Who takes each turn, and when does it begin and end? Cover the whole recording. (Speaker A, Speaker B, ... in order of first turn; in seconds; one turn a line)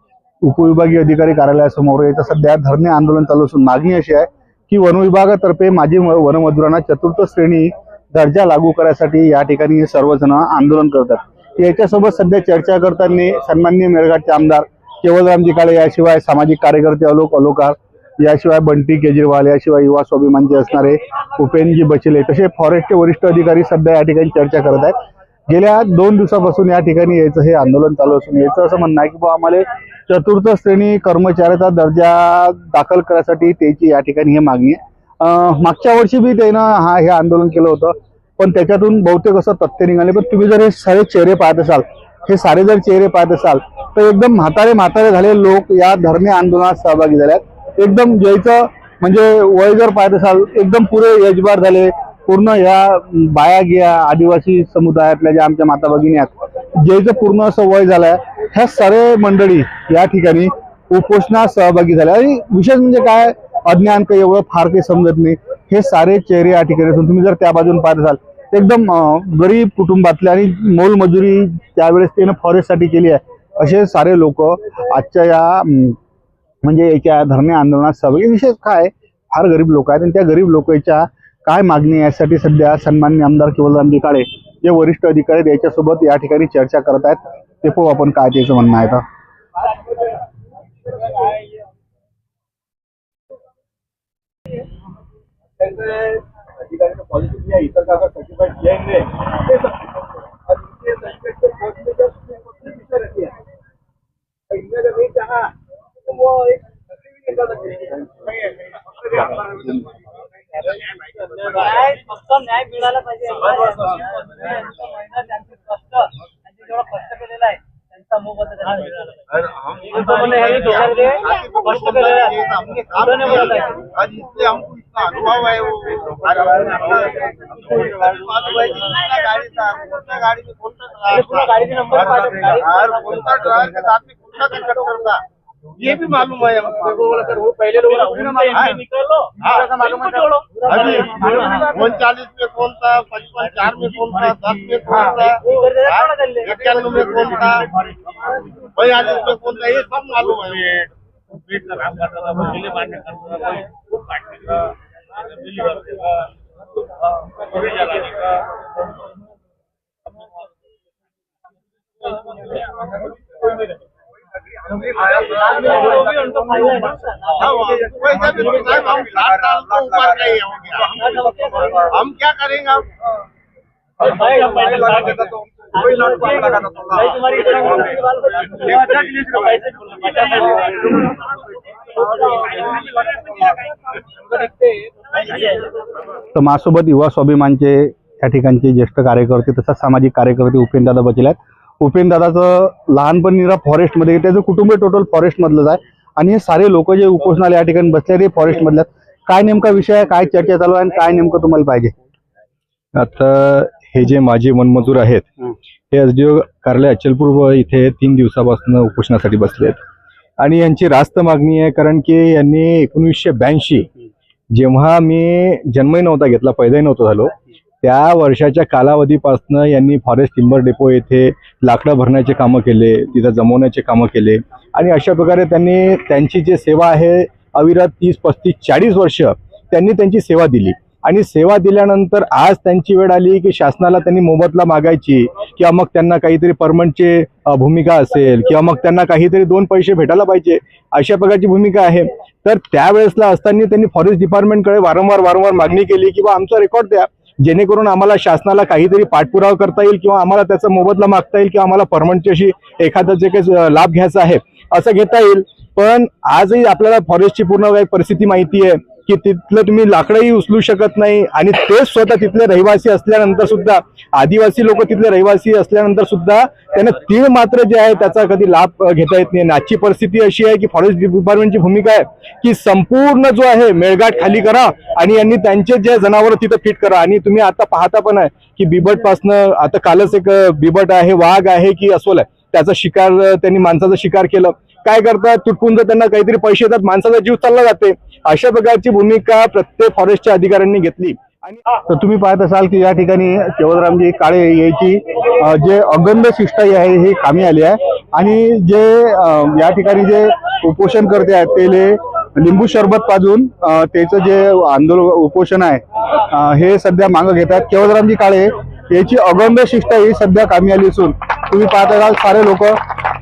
Speaker A: 0.4-24.9
Speaker A: 25.5-76.0
Speaker A: 76.6-89.0
Speaker B: 91.1-91.5
Speaker B: 95.6-99.9
Speaker B: 100.5-103.3
Speaker B: 104.5-105.5
Speaker B: 106.2-106.5
Speaker B: 107.2-108.1
Speaker C: 111.7-114.0
Speaker C: 116.7-117.3
Speaker C: 118.2-118.9
Speaker D: 119.3-135.2
Speaker C: 120.0-122.3
Speaker C: 123.0-123.7
Speaker C: 131.1-133.3
Speaker D: 135.8-137.4
Speaker C: 138.2-138.7
Speaker D: 138.4-138.8
Speaker D: 139.4-139.8
Speaker C: 139.8-141.8
Speaker D: 140.7-147.7
Speaker C: 145.2-147.0
Speaker D: 148.8-150.9
Speaker C: 165.5-167.9
Speaker D: 167.4-171.2
Speaker C: 171.0-171.8
Speaker D: 171.8-172.9
Speaker C: 174.1-175.2
Speaker C: 175.8-180.5
Speaker A: 186.3-201.9
Speaker B: 203.0-205.3
Speaker B: 205.9-209.8
Speaker B: 210.4-213.9
Speaker B: 214.5-291.6
Speaker A: 291.9-312.8